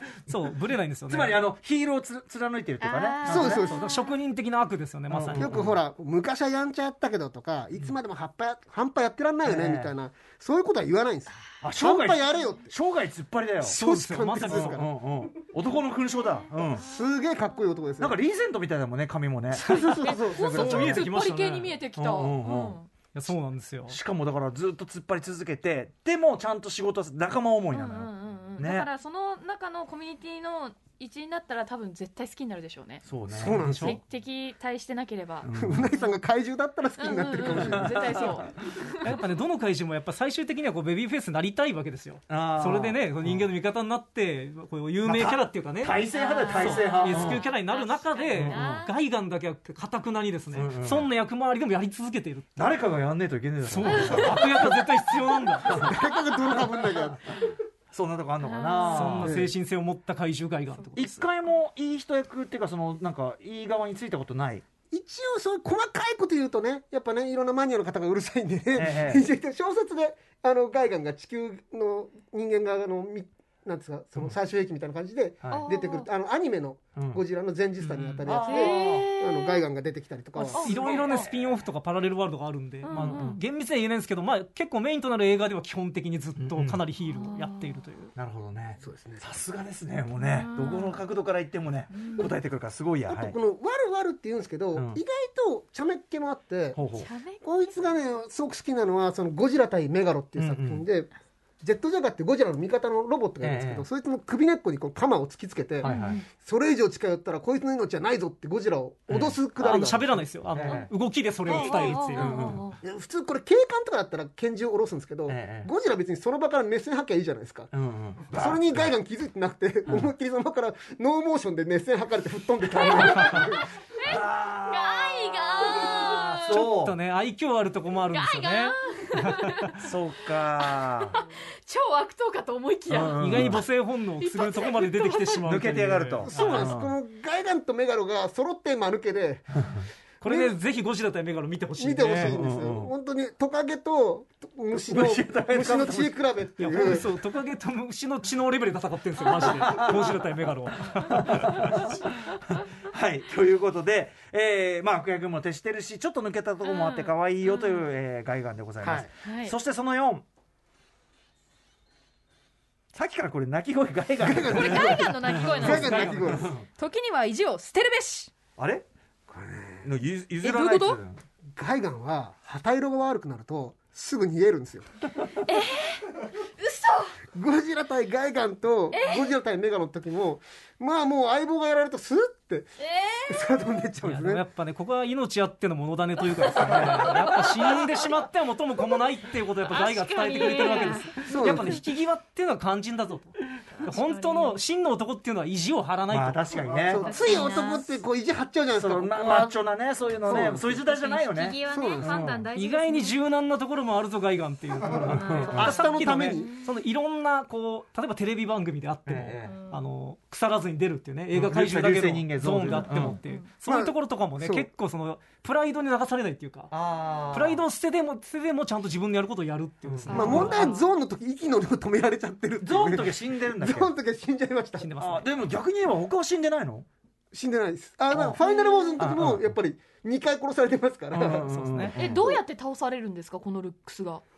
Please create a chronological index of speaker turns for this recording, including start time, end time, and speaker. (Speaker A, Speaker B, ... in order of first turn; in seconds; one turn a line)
Speaker A: 0.3-1.4
Speaker B: 1.1-3.7
Speaker C: 2.8-4.1
Speaker D: 2.9-3.3
Speaker E: 3.2-3.9
Speaker A: 3.4-5.5
Speaker B: 5.1-5.8
Speaker E: 5.3-12.7
Speaker B: 9.4-9.9
Speaker B: 11.6-13.8
Speaker C: 12.3-12.7
Speaker A: 13.6-14.8
Speaker E: 13.6-15.0
Speaker B: 14.4-16.9
Speaker C: 16.2-17.9
Speaker E: 16.8-18.2
Speaker B: 18.0-21.1
Speaker E: 19.5-20.7
Speaker C: 19.6-22.9
Speaker A: 20.4-21.8
Speaker B: 21.9-22.8
Speaker A: 23.1-24.0
Speaker B: 23.9-28.9
Speaker C: 27.7-33.0
Speaker B: 33.1-34.0
Speaker E: 33.3-34.0
Speaker A: 33.5-34.0
Speaker C: 33.8-36.2
Speaker B: 35.4-35.9
Speaker E: 35.5-38.2
Speaker C: 37.0-39.2
Speaker B: 37.5-38.4
Speaker A: 39.0-52.6
Speaker B: 42.3-43.5
Speaker B: 45.0-47.4
Speaker C: 46.1-48.9
Speaker B: 48.4-48.9
Speaker B: 50.5-51.1
Speaker B: 52.6-54.7
Speaker A: 53.7-55.8
Speaker C: 53.9-54.8
Speaker C: 55.4-55.9
Speaker B: 55.6-59.4
Speaker E: 55.7-57.2
Speaker C: 58.4-59.3
Speaker A: 58.8-61.2
Speaker E: 59.2-59.5
Speaker B: 61.0-64.6
Speaker E: 64.9-80.6
Speaker B: 68.7-69.3
Speaker C: 75.5-76.1
Speaker B: 77.0-77.2
Speaker B: 77.8-79.1
Speaker C: 78.4-79.6
Speaker C: 80.4-81.3
Speaker A: 80.5-88.1
Speaker B: 80.6-81.6
Speaker C: 82.8-83.4
Speaker B: 82.9-83.4
Speaker B: 86.4-86.8
Speaker C: 87.1-87.8
Speaker B: 88.2-93.4
Speaker E: 88.8-89.2
Speaker C: 90.2-91.0
Speaker C: 91.9-92.3
Speaker E: 93.1-96.8
Speaker B: 94.8-95.0
Speaker B: 96.8-97.1
Speaker C: 96.9-97.4
Speaker E: 97.4-101.1
Speaker B: 100.4-100.8
Speaker E: 101.6-110.2
Speaker B: 103.4-103.8
Speaker C: 105.8-106.3
Speaker B: 105.8-106.2
Speaker B: 109.1-109.4
Speaker A: 109.6-112.4
Speaker B: 110.5-110.9
Speaker C: 111.5-112.8
Speaker B: 111.6-112.6
Speaker E: 111.9-117.7
Speaker B: 115.3-115.7
Speaker B: 117.7-118.9
Speaker E: 118.3-123.7
Speaker C: 122.8-126.6
Speaker B: 122.8-123.4
Speaker B: 124.0-127.0
Speaker A: 126.5-129.7
Speaker C: 128.1-129.9
Speaker B: 129.8-131.2
Speaker C: 130.6-133.6
Speaker B: 132.9-133.6
Speaker A: 133.2-136.8
Speaker C: 134.2-135.4
Speaker B: 135.5-136.9
Speaker E: 136.2-139.5
Speaker B: 139.6-139.8
Speaker A: 140.2-142.4
Speaker E: 140.2-140.6
Speaker E: 141.8-147.1
Speaker B: 142.2-142.9
Speaker B: 144.8-146.2
Speaker A: 146.6-151.8
Speaker C: 149.4-149.9
Speaker B: 151.0-160.2
Speaker C: 156.6-157.9
Speaker E: 158.8-159.1
Speaker C: 159.2-159.6
Speaker B: 162.9-166.7
Speaker E: 164.2-166.5
Speaker C: 164.5-166.3
Speaker A: 165.6-166.2
Speaker D: 166.8-168.3
Speaker B: 168.6-168.8
Speaker E: 169.3-169.9
Speaker B: 169.8-171.2
Speaker D: 170.4-171.0
Speaker E: 171.6-174.9
Speaker C: 175.5-177.2
Speaker E: 177.3-182.7
Speaker C: 178.9-179.3
Speaker C: 182.9-183.3
Speaker E: 183.3-184.4
Speaker A: 184.0-196.7
Speaker C: 186.3-188.1
Speaker B: 186.6-187.3
Speaker C: 189.7-191.3
Speaker E: 191.2-191.8
Speaker C: 193.7-194.6
Speaker B: 196.1-197.2
Speaker E: 196.9-199.6
Speaker C: 197.0-197.9
Speaker D: 197.2-197.7
Speaker B: 198.7-202.5
Speaker E: 200.2-200.8
Speaker D: 201.0-202.8
Speaker C: 201.1-203.1
Speaker E: 201.7-202.2
Speaker A: 202.6-216.7
Speaker B: 204.9-205.8
Speaker E: 205.5-206.5
Speaker C: 206.2-206.7
Speaker B: 209.1-209.6
Speaker C: 209.5-209.8
Speaker B: 211.3-213.2
Speaker C: 213.0-213.5
Speaker E: 213.6-214.7
Speaker B: 216.7-217.6
Speaker A: 217.3-220.7
Speaker B: 219.9-220.6
Speaker C: 220.1-220.9
Speaker E: 220.1-224.9
Speaker B: 222.6-223.9
Speaker A: 224.8-225.3
Speaker B: 225.0-226.9
Speaker E: 227.3-231.5
Speaker B: 228.1-228.4
Speaker C: 228.4-229.1
Speaker B: 229.0-229.5
Speaker B: 231.1-232.3
Speaker A: 231.3-231.9
Speaker C: 231.9-234.2
Speaker E: 232.0-232.4